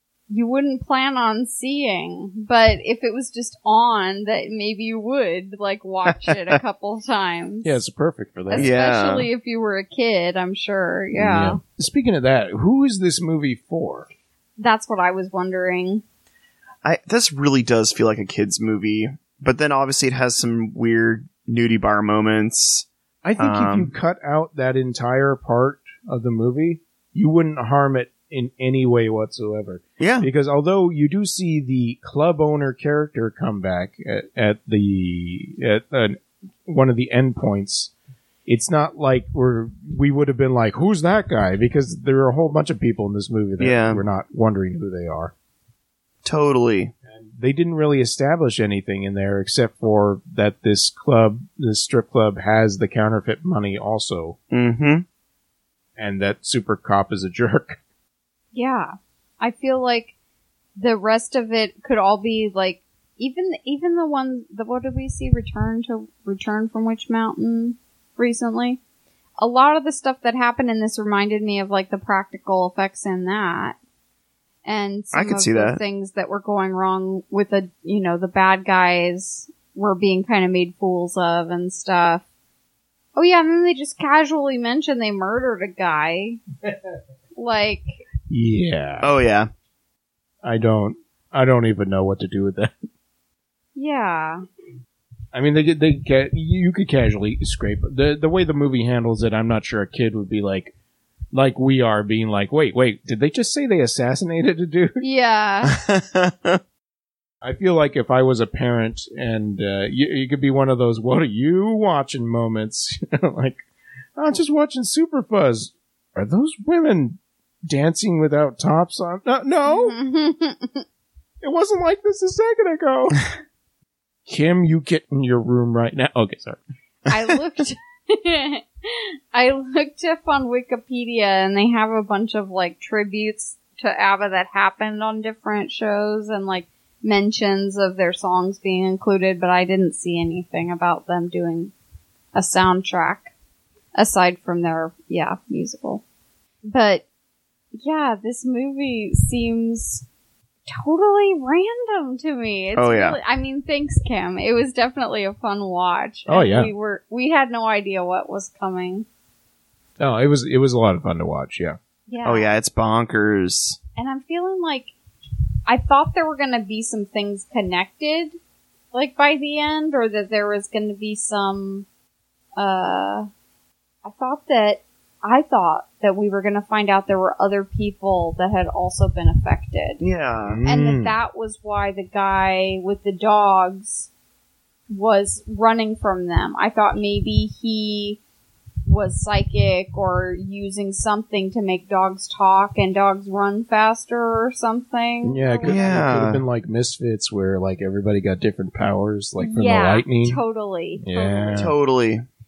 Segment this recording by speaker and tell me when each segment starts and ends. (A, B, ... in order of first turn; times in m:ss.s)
0:00.3-0:07.8 A
0:06.2-0:06.6 B
0:07.6-0:08.7 C
0:08.5-0:11.6 A
0:08.6-0:09.3 B
0:11.1-0:14.1 C
0:14.6-0:16.0 A
0:16.8-0:22.9 B
0:23.2-0:37.9 C
0:23.4-0:23.9 B
0:30.0-0:30.3 B
0:38.5-0:45.3 C
0:43.6-0:44.0 B
0:46.2-0:46.9 B
0:47.0-0:54.4 C
0:54.5-0:55.0 B
0:56.0-0:57.8 C
0:58.5-1:00.1 A
1:00.8-1:08.8 A
1:09.4-1:13.8 A
1:14.6-1:22.2 A
1:15.1-1:15.8 B
1:23.2-1:26.4 A
1:27.4-1:27.8 A
1:28.3-1:29.1 C
1:29.0-1:29.5 B
1:30.4-1:32.8 C
1:33.7-1:34.4 A
1:35.3-1:40.7 C
1:41.3-1:45.0 C
1:45.0-1:45.8 A
1:45.6-1:46.6 B
1:47.4-1:53.6 C
1:54.2-2:00.0 C
1:59.6-2:00.8 A
2:01.4-2:03.3 C
2:04.3-2:06.6 C
2:07.1-2:21.7 A
2:22.3-2:23.3 A
2:23.9-2:26.0 A
2:26.7-2:27.0 A
2:27.8-2:30.0 A
2:30.7-2:39.0 A
2:32.7-2:33.2 B
2:36.3-2:36.7 C
2:40.0-2:41.8 C
2:42.1-2:42.5 A
2:42.2-2:43.8 B
2:44.0-2:44.9 A
2:45.7-2:48.3 A
2:48.9-2:51.8 A
2:52.6-2:53.3 A
2:54.0-3:00.0 A
3:00.0-3:00.6 B
3:00.4-3:01.1 C
3:00.7-3:04.1 A
3:04.9-3:08.2 A
3:08.8-3:16.0 A
3:15.2-3:20.4 C
3:15.6-3:16.4 B
3:19.4-3:21.6 A
3:21.0-3:21.7 C
3:21.5-3:22.2 B